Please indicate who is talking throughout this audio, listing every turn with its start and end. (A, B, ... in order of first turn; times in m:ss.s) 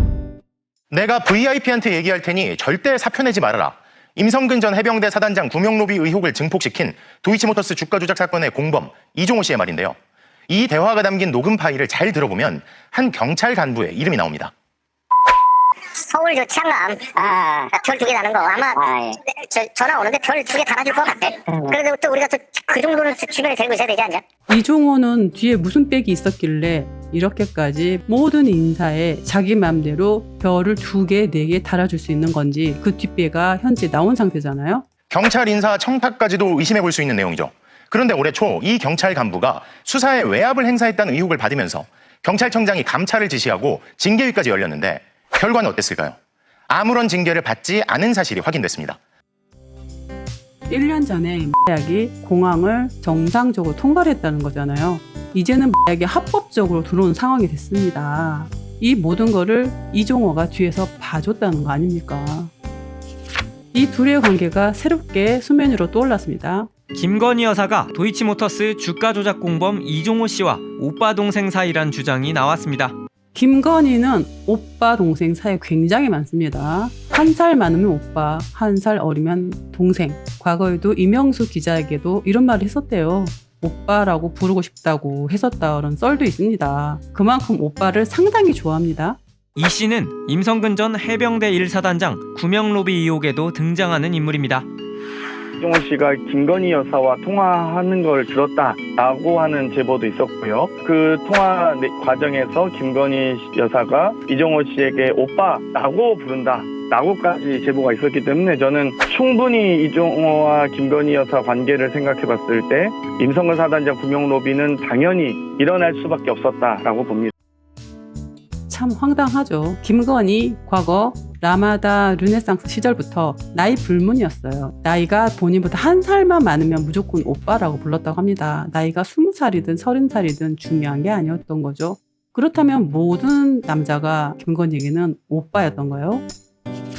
0:00.9-0:10.0 A
0:10.5-0:14.5 A
0:16.1-0:24.2 B
0:24.5-0:34.9 C
0:35.1-0:46.2 A
0:46.7-0:49.0 A
0:50.7-1:02.5 C
1:03.7-1:06.7 C
1:06.9-1:13.0 D
1:13.3-1:29.2 C
1:29.6-1:34.7 D
1:35.6-1:57.3 E
1:58.7-2:16.2 C